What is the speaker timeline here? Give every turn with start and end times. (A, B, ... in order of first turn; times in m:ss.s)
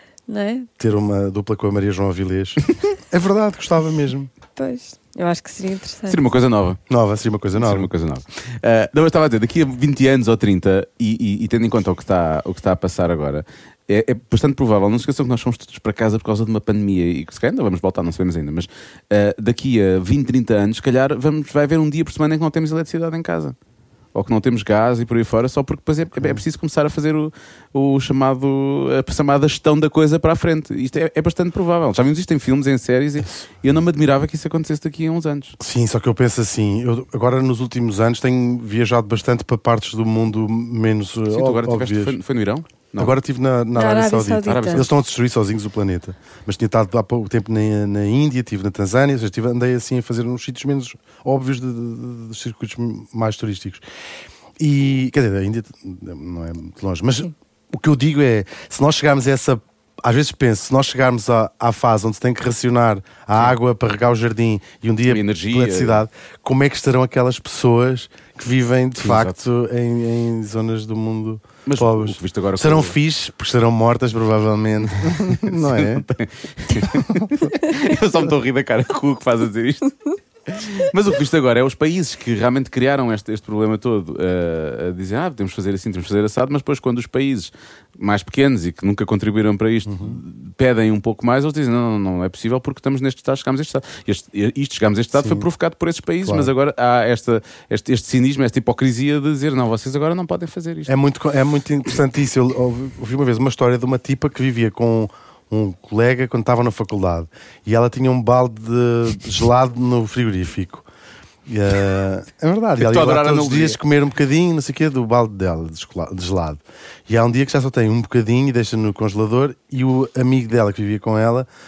0:00.3-0:00.7 A
0:00.8-0:04.3 B
0:04.6-0:06.2 A
0:06.1-0:06.8 C
0:06.9-0:07.9 B
0:07.5-0:23.5 C
0:24.1-0:35.6 C
0:35.6-0:42.2 B
0:41.3-0:43.1 C
0:43.0-0:53.8 B
0:43.7-0:44.9 A
0:44.4-0:44.9 C
0:54.6-1:16.1 B
1:05.1-1:06.0 C
1:09.0-1:09.3 C
1:11.6-1:13.0 C
1:15.3-1:40.9 C
1:16.7-1:17.5 B
1:29.9-1:30.2 B
1:35.2-1:35.5 B
1:36.2-1:36.5 B
1:40.9-1:50.8 B
1:51.5-2:01.5 B
1:52.8-1:53.8 C